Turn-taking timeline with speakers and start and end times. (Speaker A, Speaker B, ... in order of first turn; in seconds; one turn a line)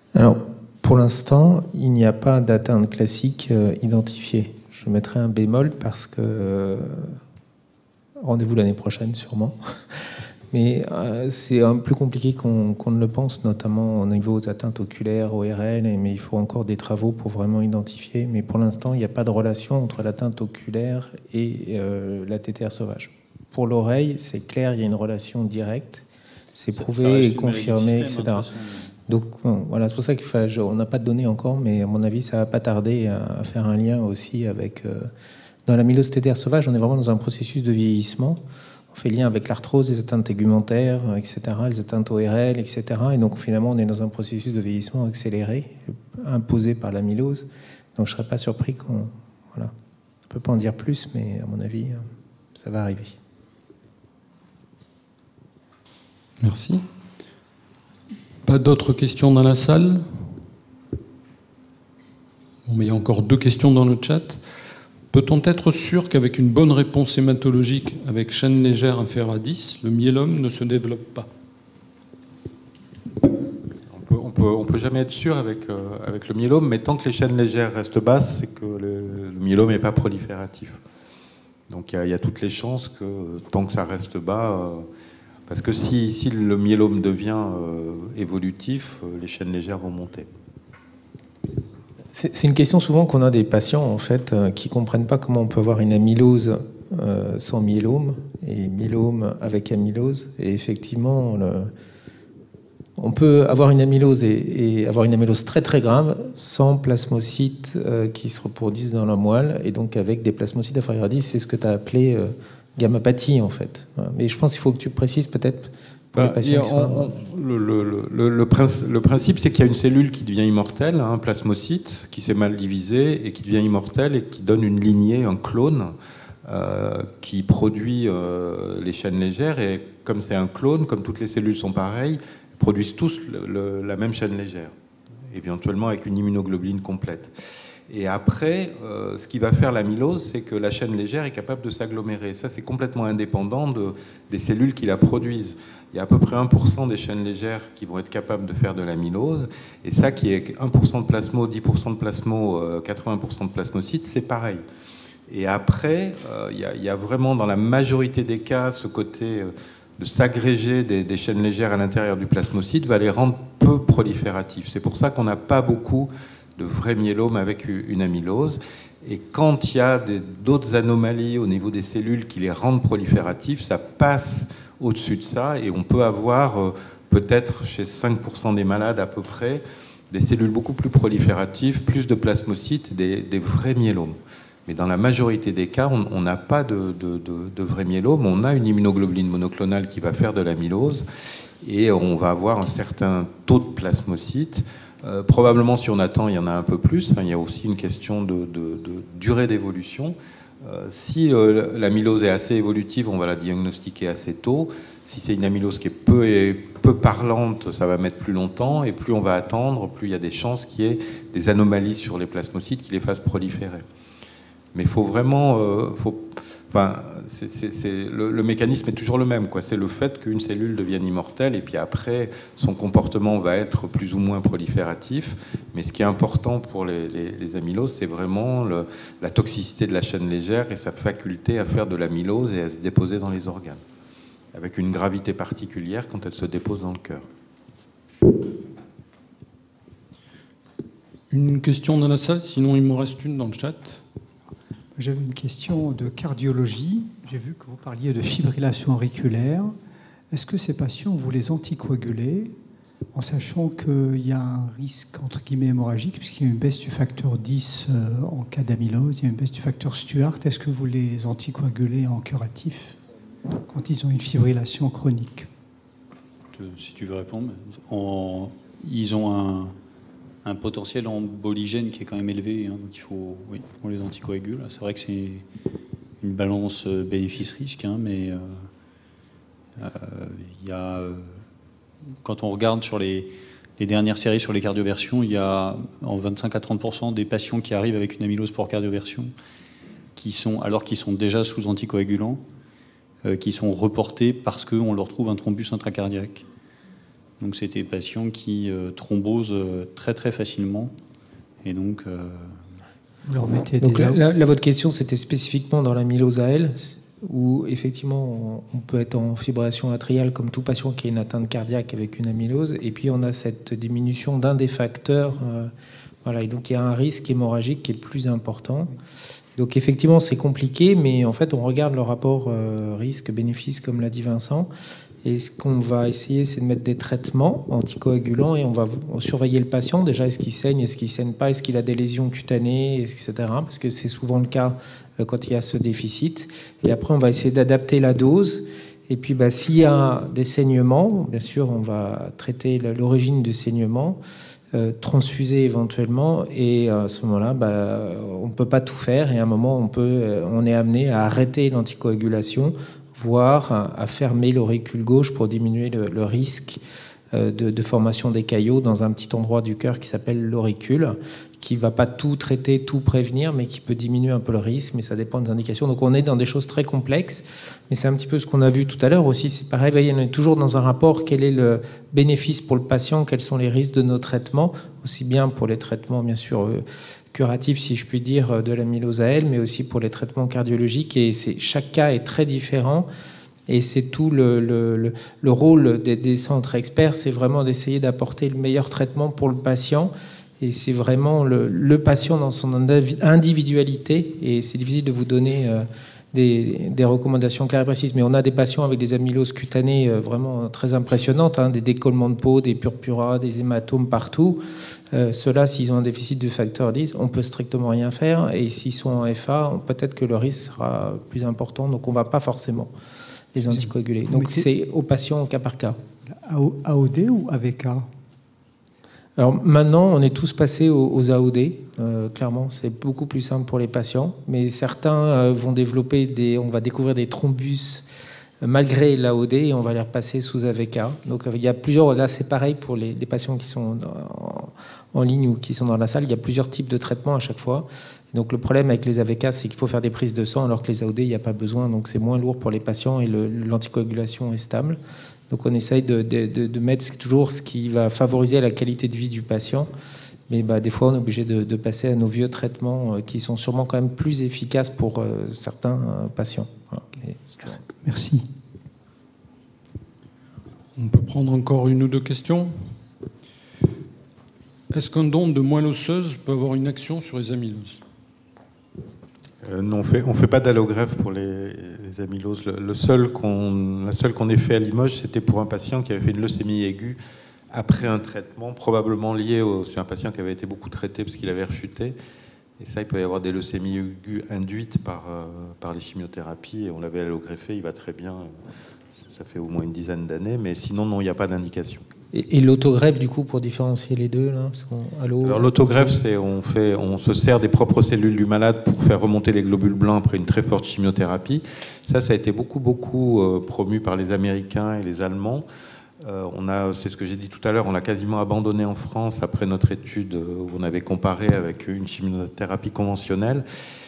Speaker A: 0.1-7.2
Speaker A: 8.2-9.6
Speaker A: 10.5-26.0
Speaker A: 26.6-28.5
Speaker B: 26.8-29.0
Speaker A: 29.1-35.1
Speaker A: 35.7-38.4
Speaker A: 38.9-49.7
Speaker A: 50.3-53.2
Speaker C: 56.4-56.8
Speaker C: 58.4-60.3
Speaker C: 62.7-64.4
Speaker C: 65.1-71.3
Speaker D: 73.8-80.8
Speaker D: 81.7-84.9
Speaker D: 85.5-90.3
Speaker A: 92.1-101.7
Speaker A: 103.0-117.1
Speaker D: 116.1-125.9
Speaker D: 126.5-134.7
Speaker D: 135.3-137.3
Speaker D: 137.9-154.6
Speaker D: 155.3-191.1
Speaker D: 191.6-213.8
Speaker D: 214.7-233.8
Speaker D: 234.5-237.3
Speaker C: 241.3-244.0
Speaker E: 245.0-249.7
Speaker E: 250.3-252.6
Speaker E: 253.1-263.0
Speaker E: 263.6-265.5
Speaker B: 266.5-269.8
Speaker B: 270.4-275.4
Speaker B: 276.2-278.7
Speaker B: 279.8-281.4
Speaker B: 282.2-289.3
Speaker B: 290.1-292.4
Speaker B: 293.2-296.5
Speaker B: 297.4-300.9
Speaker B: 301.6-302.6
Speaker E: 303.2-304.2
Speaker A: 303.8-315.7
Speaker A: 316.2-318.9
Speaker A: 319.6-324.7
Speaker A: 325.2-344.2
Speaker A: 344.7-356.8
Speaker A: 357.3-383.1
Speaker A: 383.7-404.6
Speaker A: 405.1-412.9
Speaker E: 413.6-414.7
Speaker A: 413.6-416.0
Speaker E: 416.3-418.1
Speaker A: 419.4-428.1
Speaker A: 428.6-445.0
Speaker A: 445.5-449.9
Speaker A: 450.5-457.8
Speaker E: 458.0-458.5
Speaker C: 461.0-463.0
Speaker C: 464.9-468.0
Speaker D: 469.6-477.2
Speaker D: 477.7-482.2
Speaker D: 482.8-488.5
Speaker D: 489.2-492.1
Speaker A: 492.3-496.1
Speaker D: 495.4-505.6
Speaker D: 506.2-513.6